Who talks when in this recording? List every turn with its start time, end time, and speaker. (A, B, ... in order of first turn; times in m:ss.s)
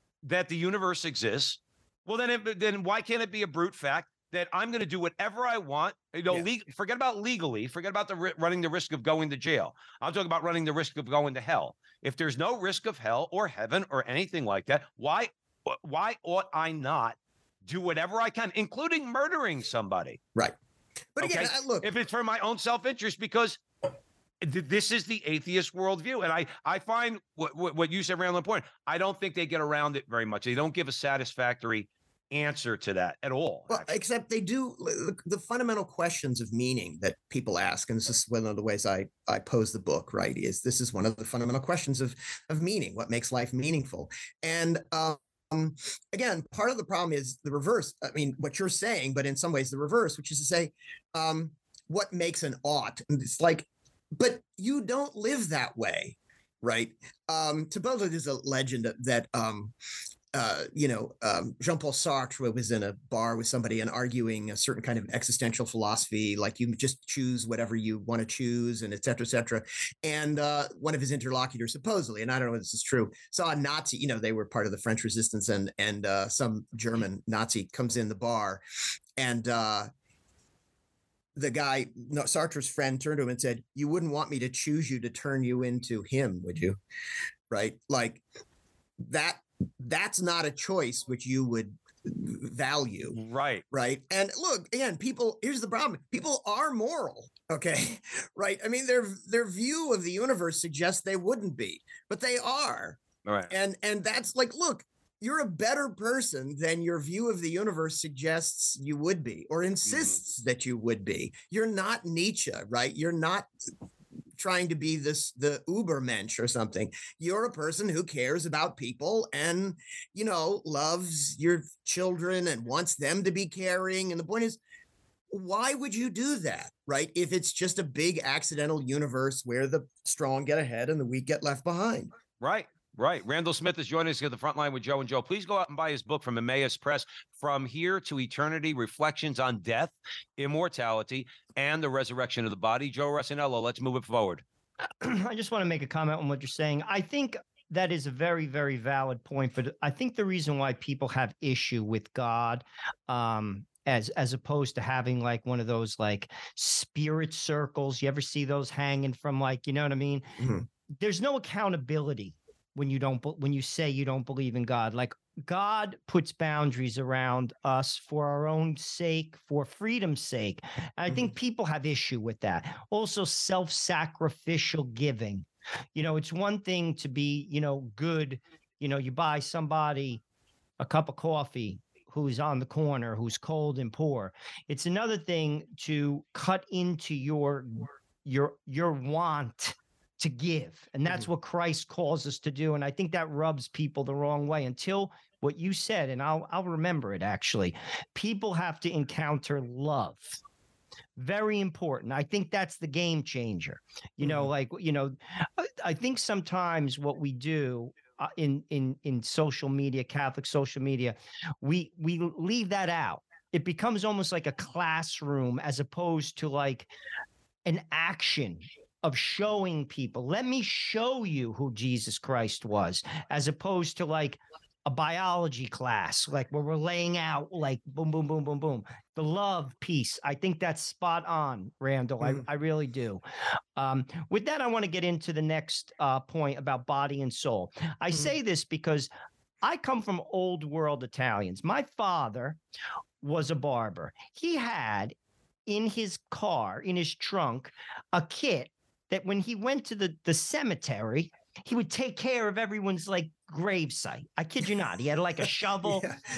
0:00.2-0:20.2 A
0:21.2-0:21.9 B
0:21.2-0:23.6 A
0:24.4-0:33.9 A
0:33.7-0:59.7 B
1:00.3-1:18.6 B
1:19.2-1:19.9 B
1:21.4-1:26.8 B
1:27.5-1:28.2 B
1:29.0-1:33.2 B
1:33.1-1:33.6 A
1:33.7-1:53.5 B
1:43.2-1:43.5 A
1:49.8-1:50.2 A
1:54.4-2:04.6 B
2:05.3-2:12.1 B
2:12.4-2:24.4 A
2:25.0-2:40.4 C
2:41.0-3:00.2 C
3:00.8-3:20.4 C
3:21.2-3:36.9 C
3:24.2-3:24.5 B
3:37.6-3:53.2 C
3:53.8-3:59.1 C
3:59.6-4:02.6 C
4:03.2-4:05.1 C
4:05.7-4:16.1 C
4:15.8-4:16.2 B